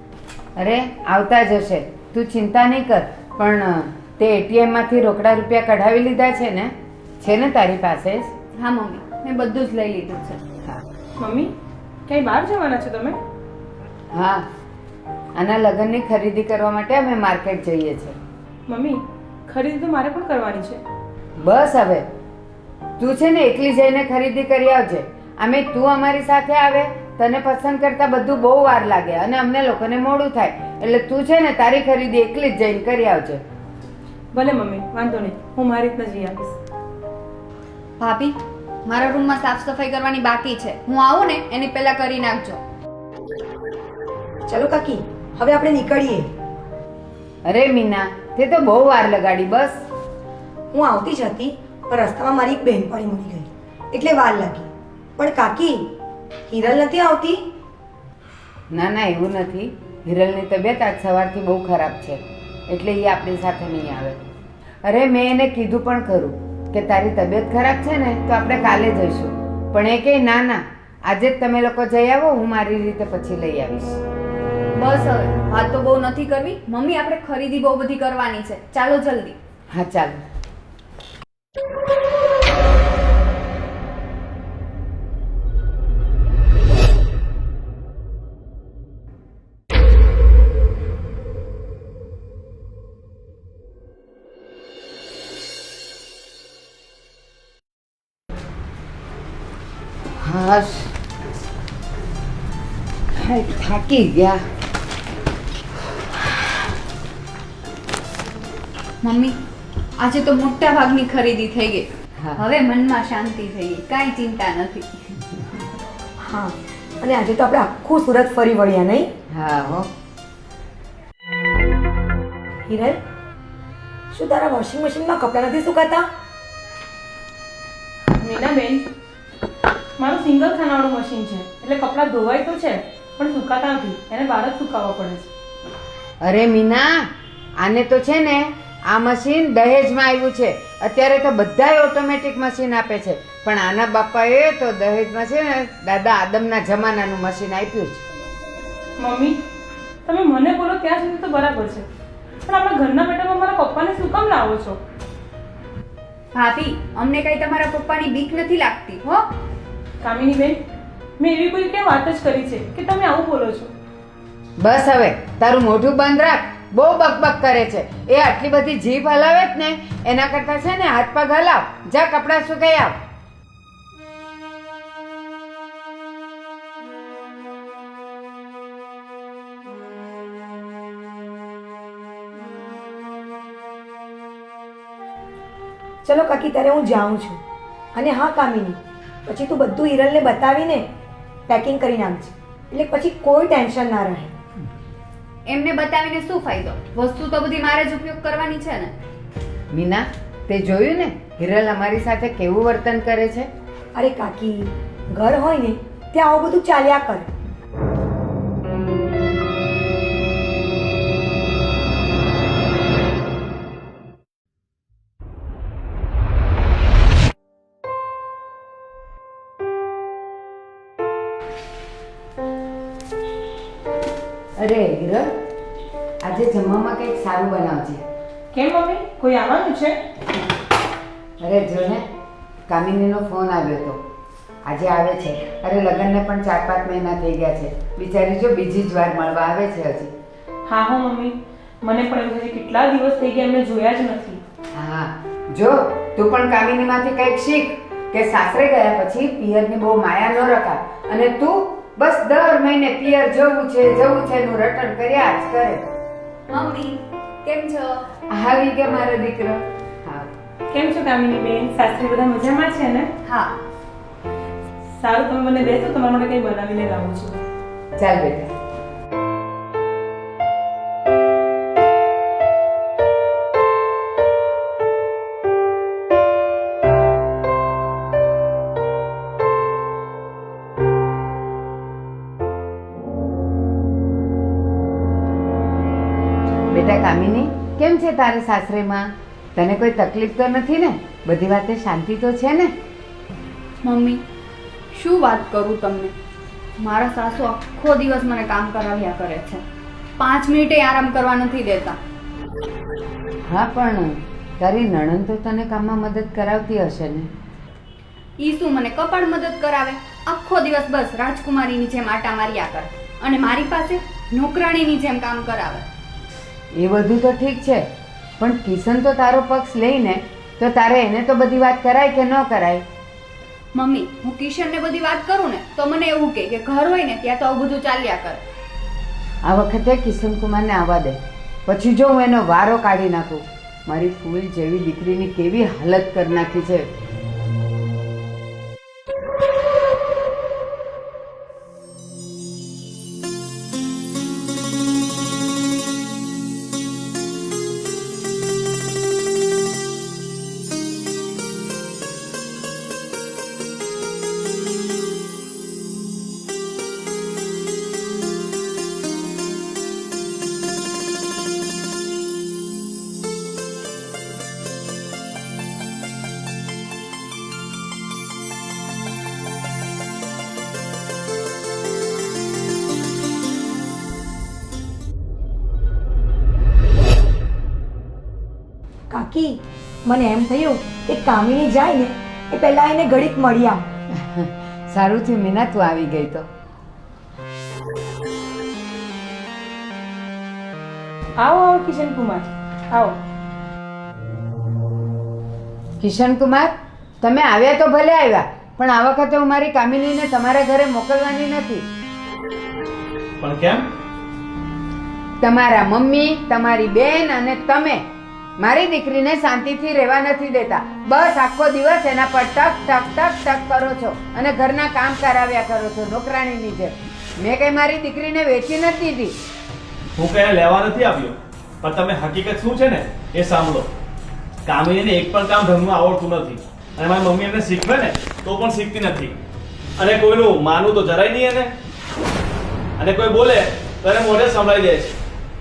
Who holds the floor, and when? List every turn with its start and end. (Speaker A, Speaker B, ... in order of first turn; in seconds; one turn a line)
Speaker A: 0.6-8.3
Speaker B: 8.6-10.4
Speaker C: 11.2-11.5
Speaker C: 12.1-13.2
Speaker A: 14.1-14.4
Speaker A: 15.4-18.2
Speaker C: 18.7-20.8
Speaker A: 21.4-22.0
Speaker A: 23.0-33.4
Speaker C: 34.3-36.6
Speaker B: 38.0-38.3
Speaker B: 38.9-42.6
Speaker D: 44.5-46.3
Speaker A: 47.5-49.8
Speaker D: 50.7-55.9
Speaker D: 56.5-57.5
Speaker A: 58.7-64.2
Speaker A: 64.8-74.0
Speaker B: 74.7-79.4
Speaker A: 79.7-80.2
Speaker A: 100.2-101.0
Speaker A: 103.2-104.4
Speaker B: 109.0-109.3
Speaker B: 110.0-111.8
Speaker B: 112.4-115.0
Speaker D: 116.2-119.1
Speaker A: 119.3-119.9
Speaker D: 122.7-123.0
Speaker D: 124.1-126.1
Speaker C: 128.2-128.8
Speaker C: 130.0-135.3
Speaker A: 136.2-137.1
Speaker A: 137.6-148.0
Speaker C: 149.0-149.4
Speaker C: 150.0-151.9
Speaker C: 152.4-154.8
Speaker B: 156.3-159.2
Speaker C: 160.0-160.6
Speaker C: 161.2-163.7
Speaker A: 164.6-173.0
Speaker D: 186.0-187.4
Speaker D: 187.9-190.9
Speaker D: 191.5-194.3
Speaker B: 195.5-198.9
Speaker A: 199.7-203.5
Speaker D: 203.9-207.3
Speaker A: 224.6-225.3
Speaker A: 226.2-228.0
Speaker C: 228.5-230.0
Speaker A: 231.4-232.0
Speaker A: 232.7-234.0
Speaker A: 234.7-240.1
Speaker C: 240.7-244.4
Speaker A: 244.8-255.8
Speaker B: 256.5-258.1
Speaker A: 258.3-260.3
Speaker C: 260.7-263.1
Speaker B: 263.2-263.6
Speaker C: 264.9-267.4
Speaker A: 268.0-268.5
Speaker A: 286.7-292.7
Speaker B: 293.8-294.2
Speaker B: 294.9-296.1
Speaker B: 296.8-299.6
Speaker B: 300.2-302.0
Speaker A: 303.5-307.3
Speaker B: 308.4-315.9
Speaker A: 316.7-317.9
Speaker A: 318.4-322.8
Speaker B: 323.8-328.4
Speaker A: 329.4-336.9
Speaker D: 379.1-383.9
Speaker A: 384.1-386.5
Speaker C: 391.4-393.2
Speaker A: 396.0-401.9
Speaker E: 403.4-403.9
Speaker A: 405.4-408.0
Speaker A: 408.6-419.3
Speaker E: 420.2-423.9
Speaker E: 424.7-429.4
Speaker E: 430.0-431.7
Speaker E: 433.0-435.2